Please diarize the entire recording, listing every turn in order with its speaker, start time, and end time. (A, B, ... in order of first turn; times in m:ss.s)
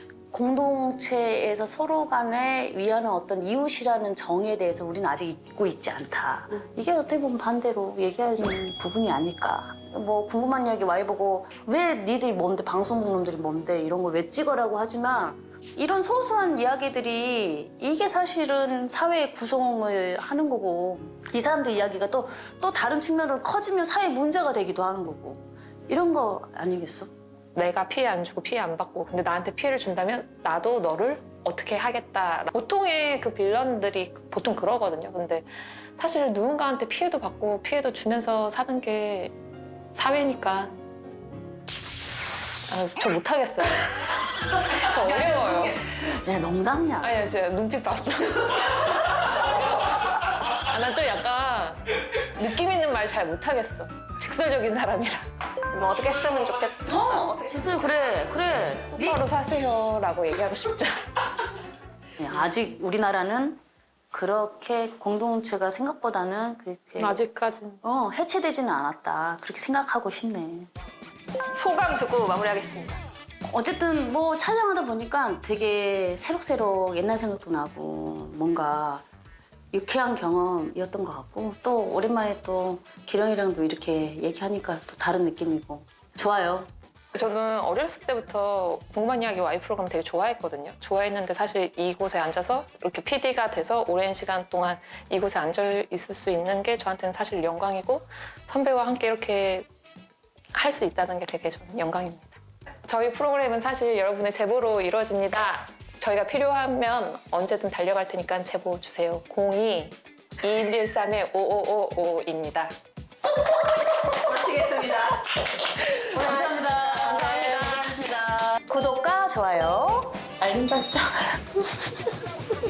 0:00.3-0:27.1 A
0:27.6-0:39.3 B
0:39.9-0:40.8 B
0:42.7-0:43.9 B
0:44.6-0:47.2 A
0:44.7-0:45.8 B
0:47.0-0:51.8 B
0:52.4-0:55.3 B
0:55.7-0:57.4 C
0:56.9-0:59.2 A
0:59.0-1:01.1 B
1:02.2-1:03.6 A
1:04.1-1:07.2 A
1:07.0-1:07.8 B
1:07.8-1:10.7 A
1:11.5-1:13.0 C
1:13.5-1:19.0 A
1:19.7-1:26.7 A
1:27.1-1:39.7 B
1:40.5-1:42.3 B
1:42.8-1:52.7 B
1:54.1-1:55.2 C
1:55.8-2:00.3 A
1:56.8-1:58.0 B
2:00.4-2:01.2 B